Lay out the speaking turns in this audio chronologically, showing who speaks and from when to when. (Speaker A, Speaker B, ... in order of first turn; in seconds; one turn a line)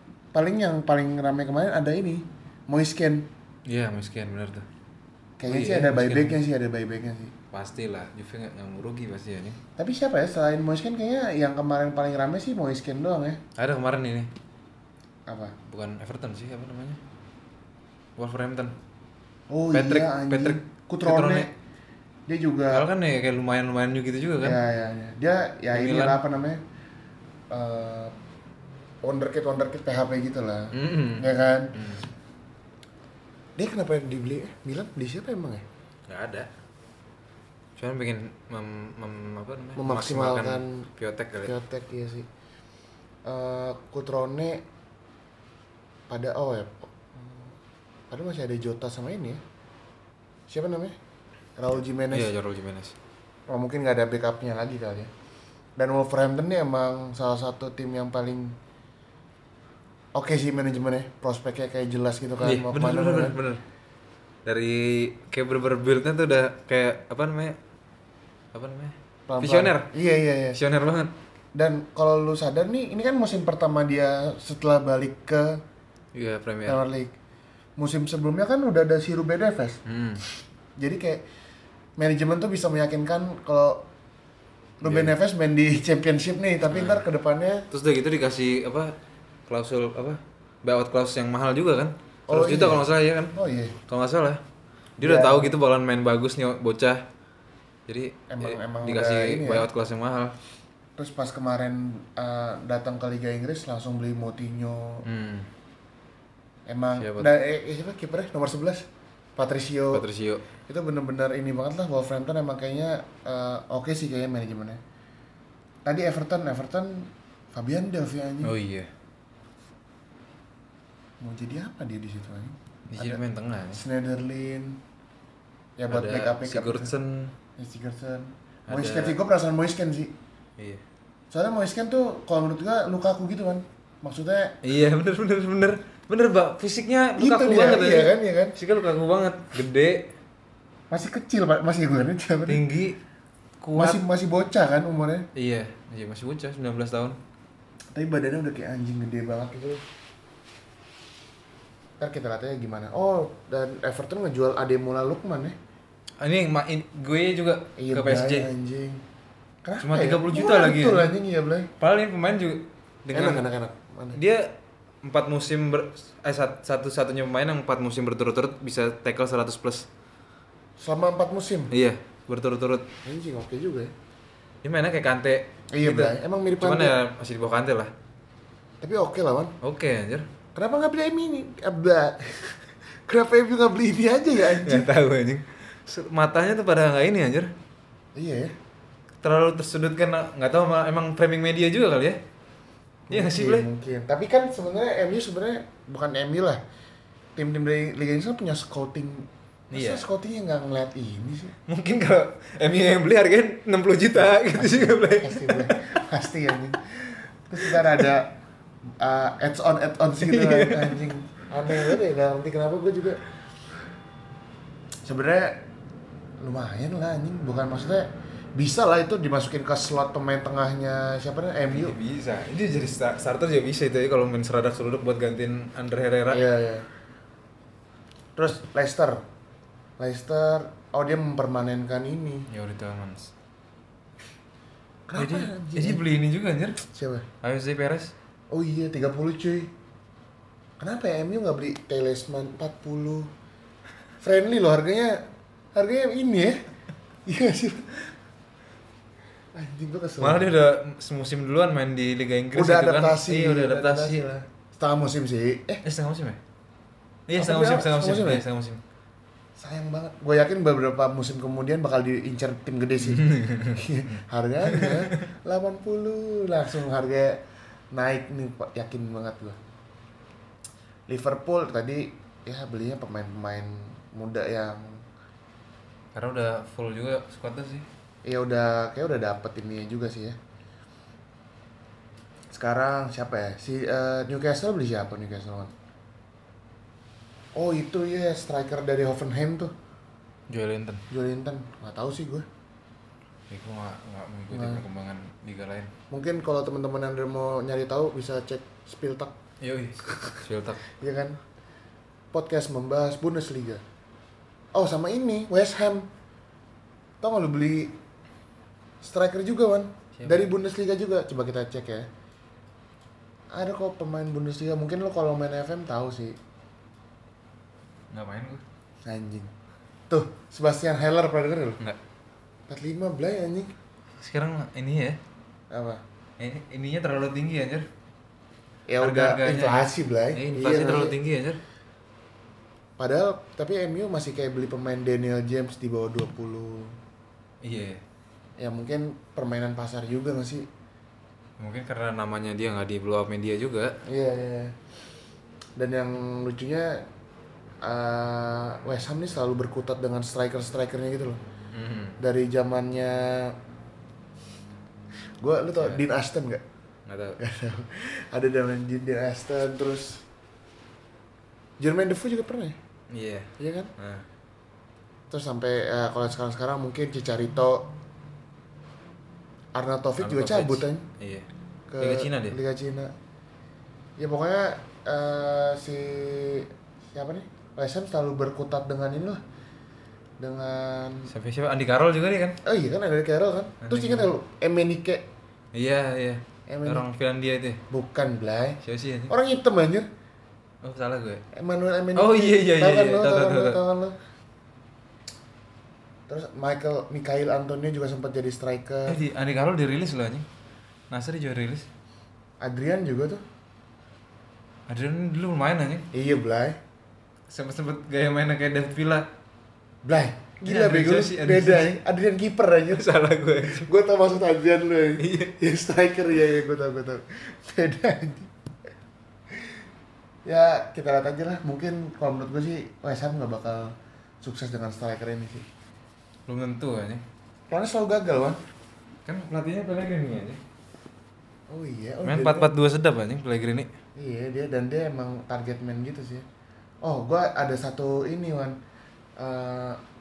Speaker A: 0.3-3.3
Speaker B: 3.6-4.7
Speaker A: 5.4-7.3
Speaker B: 5.5-6.4
Speaker B: 7.5-9.6
Speaker A: 9.8-13.4
Speaker B: 13.6-14.3
Speaker A: 15.3-15.6
Speaker B: 15.7-17.0
Speaker B: 18.2-18.8
Speaker A: 19.5-21.5
Speaker B: 19.7-21.5
Speaker A: 22.3-22.9
Speaker B: 22.7-24.6
Speaker A: 24.4-26.6
Speaker B: 25.7-26.2
Speaker A: 27.5-28.1
Speaker A: 29.0-31.8
Speaker B: 30.7-32.1
Speaker A: 33.6-35.6
Speaker B: 36.1-36.5
Speaker B: 37.8-41.5
Speaker A: 39.8-40.9
Speaker A: 41.4-42.3
Speaker A: 43.2-44.6
Speaker A: 46.1-47.5
Speaker A: 48.1-49.4
Speaker A: 50.5-51.0
Speaker A: 51.6-52.3
Speaker B: 52.1-52.9
Speaker A: 53.5-55.1
Speaker A: 55.8-58.6
Speaker A: 60.1-63.4
Speaker B: 62.4-63.6
Speaker B: 64.5-67.6
Speaker B: 68.5-69.9
Speaker A: 69.3-70.6
Speaker B: 70.5-71.1
Speaker A: 71.5-75.6
Speaker B: 76.1-76.8
Speaker A: 76.7-77.1
Speaker A: 77.8-79.8
Speaker B: 79.9-80.2
Speaker A: 80.8-81.2
Speaker A: 82.0-83.9
Speaker A: 84.8-87.7
Speaker B: 84.8-85.2
Speaker B: 86.7-87.0
Speaker B: 87.7-89.0
Speaker B: 89.5-93.3
Speaker A: 92.3-93.8
Speaker B: 93.9-94.4
Speaker B: 95.0-97.0
Speaker A: 95.0-95.6
Speaker B: 97.9-100.3
Speaker A: 98.3-99.7
Speaker A: 101.0-105.0
Speaker B: 105.0-105.5
Speaker A: 106.7-110.0
Speaker B: 106.9-107.3
Speaker B: 109.9-110.4
Speaker A: 110.7-114.8
Speaker A: 115.8-118.5
Speaker B: 118.4-118.9
Speaker A: 121.2-123.2
Speaker B: 122.9-123.8
Speaker A: 123.7-124.8
Speaker A: 125.8-126.9
Speaker B: 125.9-127.3
Speaker A: 127.6-130.1
Speaker B: 128.7-129.2
Speaker A: 131.3-134.6
Speaker B: 134.6-140.1
Speaker A: 137.2-138.6
Speaker A: 140.9-142.6
Speaker B: 142.5-143.0
Speaker B: 143.6-144.0
Speaker A: 143.8-145.3
Speaker B: 145.3-147.2
Speaker A: 147.9-149.8
Speaker A: 152.0-155.6
Speaker B: 156.2-158.5
Speaker A: 157.8-159.0
Speaker A: 159.6-161.7
Speaker B: 159.8-161.1
Speaker B: 161.8-163.4
Speaker A: 163.1-164.2
Speaker B: 164.1-169.9
Speaker A: 170.8-171.7
Speaker B: 171.7-172.9
Speaker A: 173.0-173.9
Speaker B: 174.6-177.9
Speaker A: 175.7-177.0
Speaker A: 178.8-179.5
Speaker B: 179.6-180.3
Speaker A: 180.6-184.9
Speaker B: 184.4-187.5
Speaker A: 188.1-188.6
Speaker B: 189.2-192.2
Speaker A: 193.1-196.6
Speaker B: 193.1-193.7
Speaker A: 197.4-201.6
Speaker B: 199.7-200.1
Speaker B: 201.7-206.0
Speaker A: 204.6-208.4
Speaker B: 207.6-207.9
Speaker A: 209.0-213.2
Speaker B: 210.2-211.1
Speaker B: 211.7-211.9
Speaker A: 215.1-215.6
Speaker A: 216.4-221.9
Speaker B: 221.7-226.4
Speaker A: 226.3-226.9
Speaker A: 228.4-229.2
Speaker A: 230.0-232.5
Speaker B: 232.5-233.3
Speaker A: 235.1-236.0
Speaker B: 235.1-236.8
Speaker A: 236.8-237.2
Speaker B: 237.4-238.1
Speaker A: 238.5-239.7
Speaker A: 240.8-243.3
Speaker A: 244.2-246.6
Speaker A: 247.2-248.0
Speaker A: 249.5-250.5
Speaker B: 250.2-254.3
Speaker A: 252.6-255.8
Speaker B: 255.8-256.4
Speaker B: 257.3-258.8
Speaker A: 257.4-258.4
Speaker A: 259.6-269.6
Speaker B: 263.1-263.8
Speaker B: 264.6-265.2
Speaker A: 271.1-275.0
Speaker B: 276.1-277.9
Speaker A: 278.2-280.4
Speaker A: 282.5-285.7
Speaker A: 287.5-289.7
Speaker B: 290.5-291.1
Speaker A: 291.1-292.4
Speaker B: 293.5-295.9
Speaker A: 294.5-294.8
Speaker A: 296.1-299.4
Speaker B: 299.6-300.9
Speaker A: 300.1-300.4
Speaker A: 300.9-301.4
Speaker A: 302.3-303.8
Speaker A: 304.7-306.1
Speaker A: 307.2-307.9
Speaker A: 309.0-312.1
Speaker B: 310.1-310.5
Speaker A: 313.5-316.4
Speaker B: 318.1-318.6
Speaker A: 319.0-319.5
Speaker A: 320.1-321.8
Speaker A: 322.7-323.7
Speaker B: 324.2-325.2
Speaker A: 325.7-326.0
Speaker B: 326.4-327.9
Speaker A: 328.9-331.1
Speaker B: 329.0-331.6
Speaker A: 333.0-337.0
Speaker B: 337.6-338.0
Speaker A: 338.6-340.7
Speaker B: 341.6-344.0
Speaker A: 344.1-344.8
Speaker A: 345.8-347.1
Speaker A: 347.8-351.4
Speaker B: 351.7-352.2
Speaker A: 352.2-353.6
Speaker A: 355.4-356.6
Speaker B: 355.8-356.0
Speaker B: 357.1-357.4
Speaker A: 357.4-360.2
Speaker A: 361.8-362.8
Speaker B: 363.1-364.2
Speaker A: 363.6-363.9
Speaker A: 365.3-367.9
Speaker A: 369.7-371.1
Speaker B: 370.2-371.5
Speaker A: 371.9-373.1
Speaker B: 372.0-372.6
Speaker A: 374.2-379.4
Speaker A: 380.4-381.3
Speaker B: 381.3-382.6
Speaker A: 382.6-385.3
Speaker B: 383.8-384.3
Speaker B: 385.7-387.8
Speaker A: 386.7-387.1
Speaker A: 387.9-390.1
Speaker B: 388.8-389.4
Speaker B: 390.8-391.4
Speaker A: 391.5-394.1
Speaker B: 392.1-393.8
Speaker A: 396.3-399.2
Speaker B: 399.1-400.4
Speaker B: 401.1-401.9
Speaker A: 402.6-403.4
Speaker B: 404.9-406.1
Speaker A: 406.1-406.8
Speaker B: 407.5-409.3
Speaker A: 410.0-413.1
Speaker B: 410.6-411.9
Speaker B: 412.9-413.9
Speaker A: 413.6-418.5
Speaker B: 415.2-415.6
Speaker A: 420.4-425.6
Speaker B: 426.5-427.2
Speaker A: 427.7-428.6
Speaker B: 429.2-430.6
Speaker A: 431.7-432.7
Speaker B: 432.2-433.9
Speaker A: 434.1-436.4
Speaker A: 437.0-438.8
Speaker A: 439.4-440.0